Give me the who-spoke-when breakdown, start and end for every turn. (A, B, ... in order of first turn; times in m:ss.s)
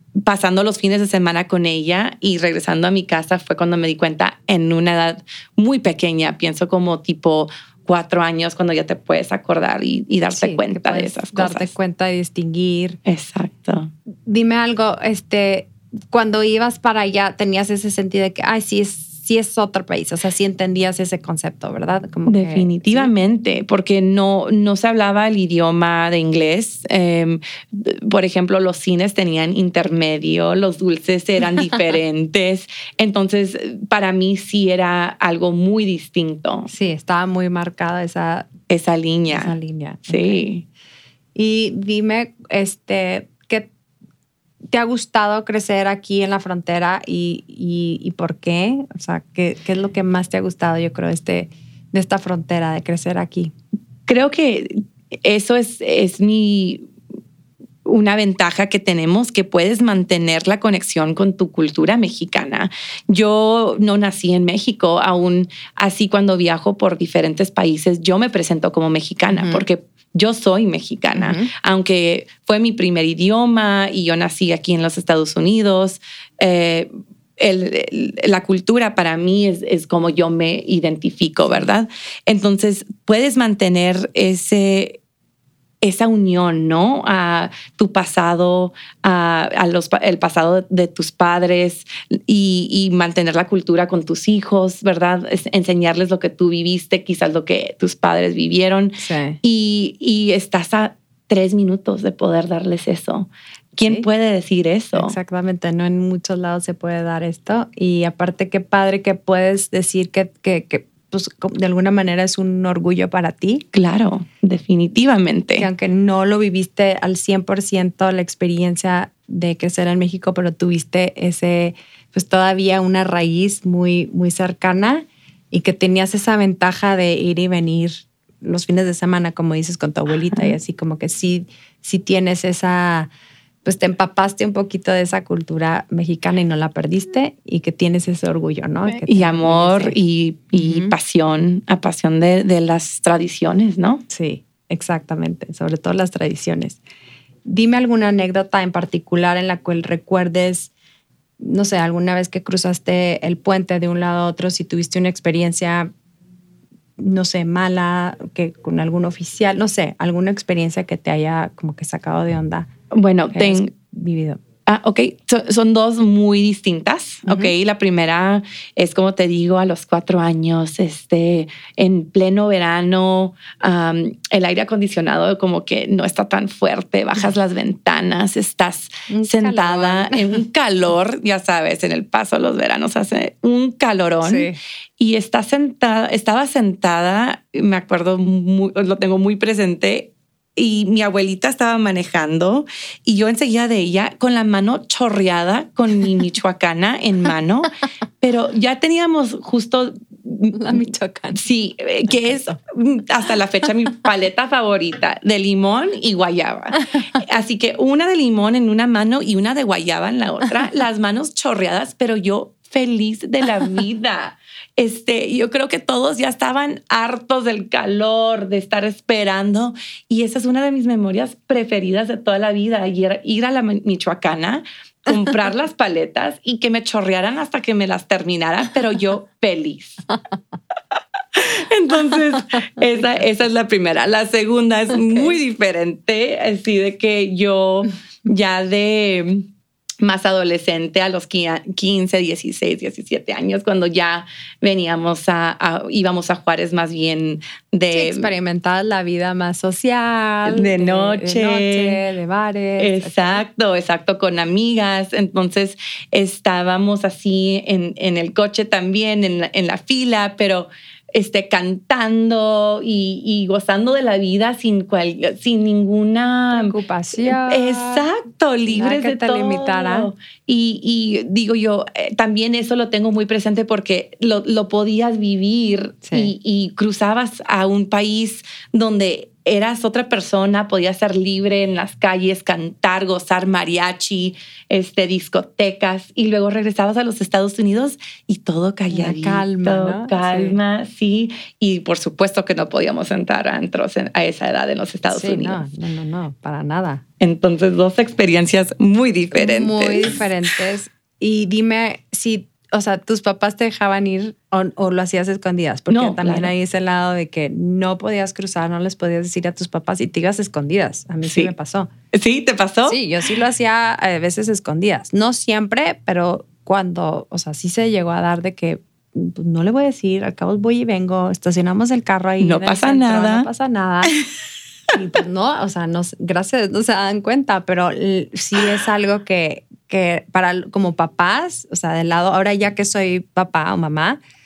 0:00.2-0:11.7 A
0:10.3-0:13.0 B
0:13.0-0:13.9 A
0:14.3-0:23.1 B
0:22.3-0:36.7 A
0:36.7-0:38.5 B
0:38.7-0:39.6 A
0:39.3-0:40.4 B
0:40.1-0:40.6 A
0:41.4-0:43.7 B
0:44.7-0:53.5 B
0:54.1-0:56.9 A
0:57.8-1:25.0 A
1:09.3-1:09.6 B
1:11.2-1:11.5 B
1:25.8-1:45.2 A
1:39.0-1:39.4 B
1:44.9-1:53.6 B
1:53.7-1:55.7 A
1:55.6-2:13.1 B
2:13.6-2:20.0 B
2:18.9-2:24.0 A
2:20.6-2:21.0 B
2:24.1-2:26.8 B
2:27.4-2:30.7 B
2:31.4-2:35.9 B
2:37.0-2:42.7 B
2:42.9-2:43.7 A
2:43.3-2:44.4 B
2:44.7-3:50.0 A
2:47.3-2:47.5 B
2:59.1-3:00.4 B
3:04.2-3:04.6 B
3:20.5-3:21.4 B
3:22.3-3:22.5 B
3:51.3-3:59.5 A
4:00.0-4:08.3 A
4:07.9-4:13.4 B
4:10.4-4:12.0 A
4:12.8-4:55.6 A
4:26.5-4:28.1 B
4:28.7-4:30.1 B
4:36.0-4:36.3 B
4:48.9-4:50.6 B
4:55.1-4:57.0 B
4:57.2-5:00.2 A
4:59.4-5:11.9 B
5:05.9-5:06.5 A
5:11.2-5:11.5 A
5:12.1-5:13.0 A
5:12.9-5:24.2 B
5:22.4-5:23.5 A
5:24.9-5:34.2 B